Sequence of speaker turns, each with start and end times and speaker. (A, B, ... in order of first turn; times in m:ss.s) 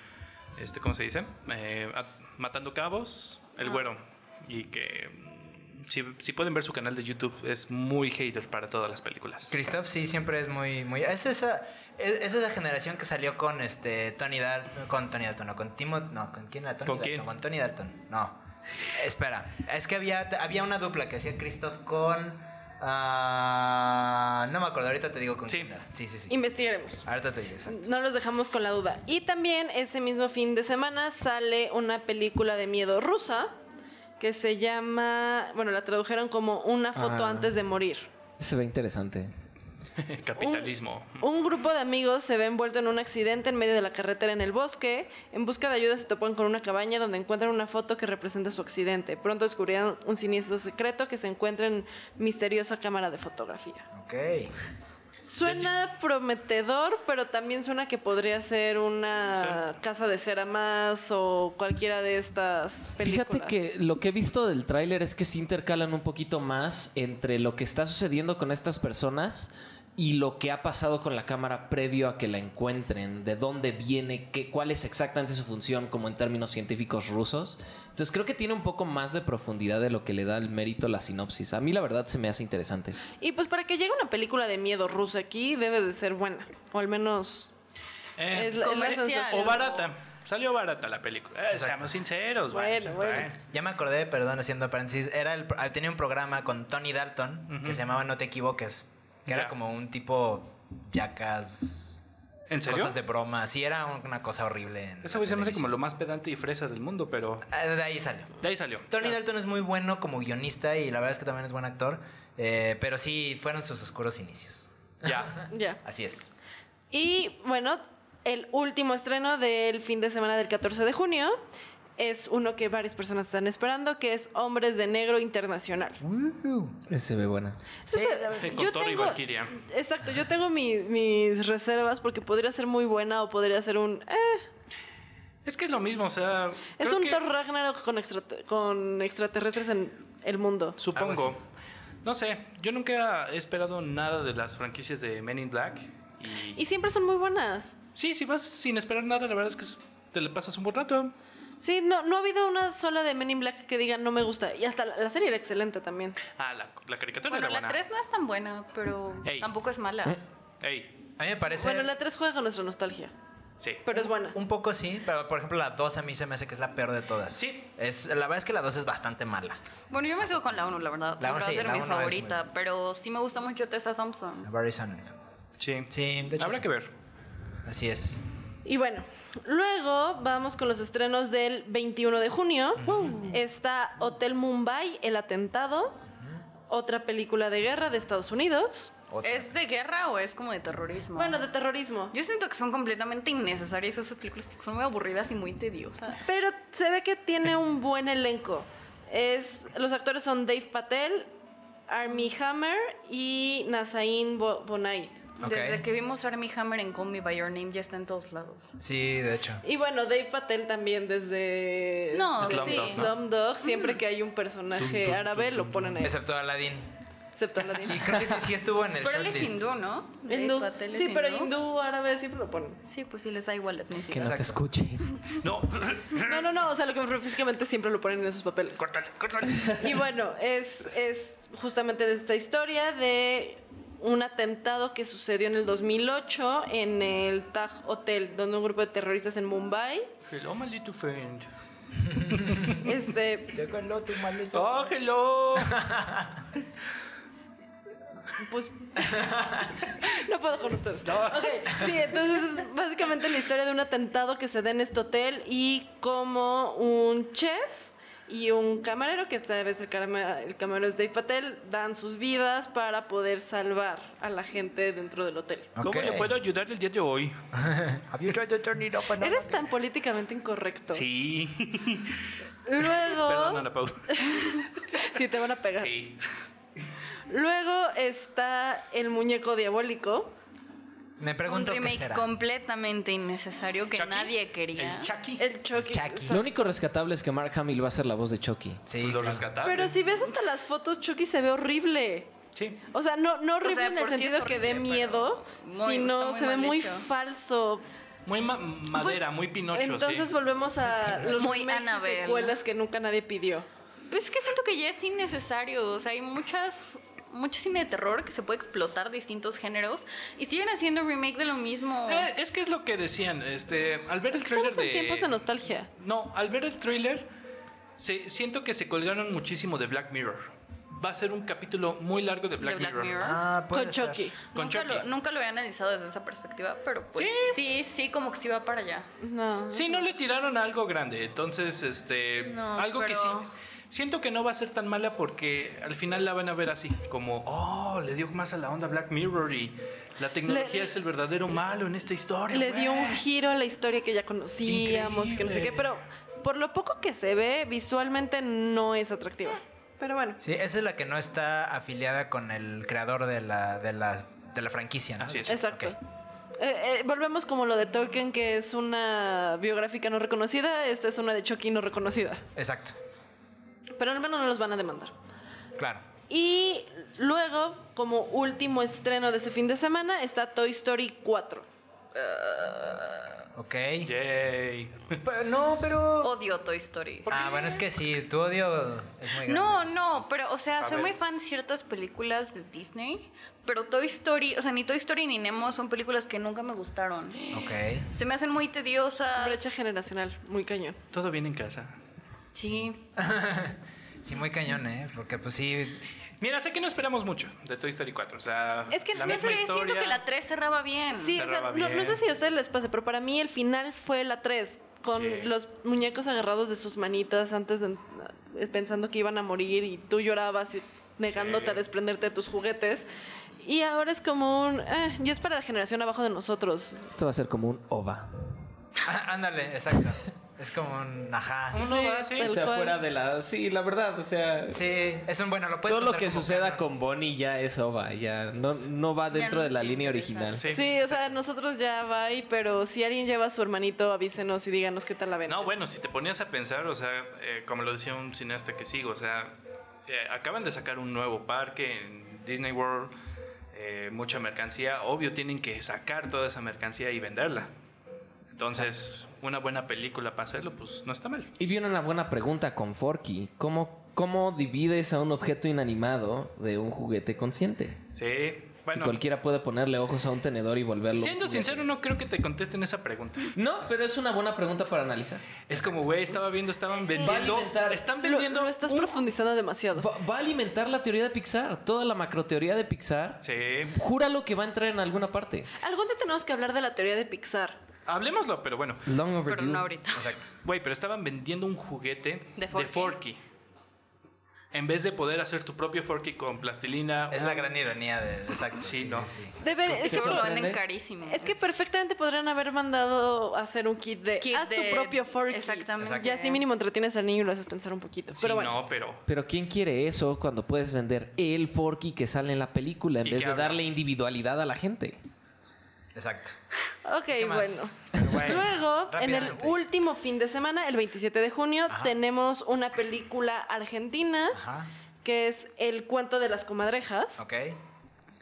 0:00.6-0:09.5 A
0:09.5-0:18.4 B
0:16.8-0:17.3 A
0:18.9-0:26.3 B
0:25.5-0:25.7 A
0:26.3-0:27.1 C
0:27.0-0:27.8 B
0:27.7-0:33.5 C
0:34.2-0:38.1 C
0:36.9-0:37.5 D
0:38.4-0:39.3 D
0:40.0-0:41.3 A
0:40.4-0:53.9 C
0:53.9-0:54.5 B
0:55.2-1:03.6 C
0:55.4-0:55.7 A
0:59.3-0:59.7 A
1:03.0-1:23.0 D
1:23.2-1:27.5 C
1:28.2-1:33.3 A
1:28.3-1:29.8 C
1:28.5-1:29.9 E
1:31.5-1:31.9 B
1:32.5-1:33.3 C
1:33.0-1:42.0 B
1:37.5-1:37.8 A
1:39.3-1:39.5 A
1:42.5-1:43.0 A
1:42.6-1:45.7 B
1:45.0-1:47.4 A
1:47.5-1:48.4 B
1:48.4-1:49.2 A
1:48.9-1:56.3 B
1:55.0-1:55.3 A
1:55.5-1:55.8 C
1:56.9-2:01.4 C
2:02.0-2:06.0 C
2:06.0-2:06.8 B
2:06.9-2:07.6 D
2:07.9-2:14.4 C
2:07.9-2:08.4 B
2:08.3-2:09.6 A
2:15.4-2:17.2 A
2:16.8-2:20.8 C
2:20.8-2:21.4 A
2:20.9-2:21.3 B
2:22.0-2:26.6 A
2:26.5-2:27.8 C
2:27.9-2:31.1 A
2:31.6-2:36.2 C
2:36.4-2:37.8 A
2:37.3-2:40.2 E
2:39.2-2:39.5 A
2:40.6-2:40.9 A
2:41.2-2:41.9 B
2:41.5-2:43.1 C
2:43.8-2:44.4 C
2:43.9-2:49.6 B
2:47.3-2:47.7 A
2:49.9-2:54.5 E
2:50.2-2:52.4 B
2:54.4-2:55.2 B
2:55.6-2:56.9 A
2:55.9-2:56.6 B
2:57.6-2:58.2 B
2:58.6-3:06.0 C
3:02.8-3:03.2 B
3:02.8-3:03.3 A
3:06.7-3:08.9 C
3:09.1-3:09.5 B
3:09.2-3:11.4 E
3:11.2-3:12.1 C
3:12.1-3:16.2 E
3:16.2-3:21.3 C
3:21.9-3:25.2 C
3:25.4-3:28.7 E
3:25.4-3:25.8 B
3:28.8-3:29.6 B
3:29.6-3:36.1 C
3:32.1-3:34.0 E
3:32.4-3:33.1 A
3:34.8-3:36.1 A
3:36.0-3:36.9 B
3:37.4-3:38.0 C
3:37.8-3:39.6 B
3:38.0-3:38.5 D
3:39.0-3:41.5 E
3:40.2-3:42.8 C
3:42.8-3:44.4 E
3:44.1-3:45.1 D
3:44.2-3:44.6 B
3:45.4-3:46.5 A
3:46.2-3:48.8 C
3:48.8-3:49.8 A
3:49.5-3:49.7 D
3:49.8-4:00.1 C
4:00.3-4:01.5 A
4:02.1-4:02.8 B
4:02.3-4:02.8 A
4:02.8-4:03.6 C
4:03.5-4:04.9 B
4:04.5-4:05.8 A
4:05.6-4:06.4 B
4:08.4-4:09.3 C
4:09.0-4:09.8 B
4:09.9-4:25.7 C
4:11.0-4:11.9 A
4:25.8-4:26.3 B
4:25.8-4:27.4 A
4:27.6-4:29.7 B
4:29.2-4:31.0 C
4:30.9-4:32.2 A
4:32.6-4:35.9 C
4:32.8-4:34.5 A
4:35.7-4:36.2 A
4:37.3-4:40.3 C
4:41.2-4:42.3 B
4:41.4-4:45.1 E
4:44.0-4:45.4 A
4:45.4-4:46.5 C
4:45.7-4:46.4 B
4:46.3-4:48.8 D
4:48.8-4:49.4 B
4:49.0-4:50.0 A
4:49.6-4:52.3 C
4:52.5-4:52.8 A
4:52.9-4:57.8 C
4:53.6-4:57.1 E
4:58.2-5:00.3 A
4:59.7-5:03.7 C
5:01.3-5:02.6 E
5:04.1-5:12.3 E
5:12.1-5:15.4 A
5:14.3-5:15.9 C
5:16.0-5:17.3 A
5:18.0-5:23.2 A
5:22.6-5:23.4 E
5:23.2-5:24.3 B
5:23.7-5:24.4 C
5:24.5-5:29.1 E
5:24.5-5:25.1 A
5:27.2-5:27.6 A
5:29.2-5:30.1 C
5:29.6-5:43.2 A
5:32.4-5:33.5 E
5:40.4-5:40.9 C
5:42.5-5:50.4 C
5:44.6-5:46.0 A
5:50.4-5:55.9 B
5:55.2-5:55.6 A
5:55.5-5:56.0 C
5:56.6-6:02.4 C
6:02.6-6:03.0 B
6:04.0-6:05.1 C
6:05.8-6:06.0 B
6:06.3-6:11.7 C
6:12.1-6:13.4 E
6:13.6-6:14.1 B
6:14.0-6:15.2 A
6:15.2-6:16.3 B
6:16.2-6:17.3 E
6:17.3-6:17.8 A
6:17.3-6:20.1 B
6:19.4-6:29.7 E
6:20.8-6:21.1 A
6:27.5-6:28.1 B
6:29.4-6:31.0 C
6:31.1-6:32.0 A
6:32.5-6:33.0 E
6:32.6-6:36.0 B
6:36.4-6:40.2 A
6:38.9-6:39.8 C
6:39.2-6:41.4 E
6:41.1-6:53.1 C
6:41.2-6:42.2 A
6:45.1-6:45.5 A
6:51.4-6:51.8 A
6:53.6-6:57.1 C
6:57.1-6:58.6 D
6:59.0-7:01.8 B
7:01.7-7:02.6 A
7:01.7-7:03.0 C
7:02.4-7:04.9 D
7:04.7-7:06.8 B
7:05.8-7:10.8 D
7:09.3-7:10.6 E
7:10.6-7:10.9 A
7:10.7-7:15.7 C
7:15.5-7:19.5 A
7:20.1-7:23.1 A
7:23.7-7:27.7 A
7:28.5-7:31.5 A
7:31.6-7:38.0 D
7:38.1-7:39.2 A
7:38.9-7:41.9 D
7:41.1-7:43.6 A
7:43.5-7:45.6 D
7:45.6-7:49.2 A
7:45.8-7:46.0 B
7:47.1-7:48.0 D
7:48.2-7:50.1 C
7:49.9-7:55.7 D
7:53.4-7:53.9 A
7:55.8-7:57.8 C
7:58.1-7:59.1 A
7:59.0-7:59.9 D
7:59.5-8:00.3 E
8:00.1-8:00.5 B
8:00.6-8:03.4 A
8:02.6-8:03.2 E
8:04.7-8:07.7 A
8:07.3-8:09.6 B
8:08.7-8:09.4 A
8:09.6-8:10.6 C
8:09.9-8:11.6 E
8:10.0-8:10.8 D
8:11.2-8:18.9 C
8:14.4-8:16.6 E
8:16.0-8:16.3 B
8:18.4-8:19.2 A
8:19.3-8:25.2 D
8:23.2-8:23.8 A
8:26.1-8:26.6 B
8:27.0-8:34.6 C
8:27.3-8:29.8 B
8:34.5-8:34.9 B
8:35.2-8:37.4 C
8:37.4-8:37.8 B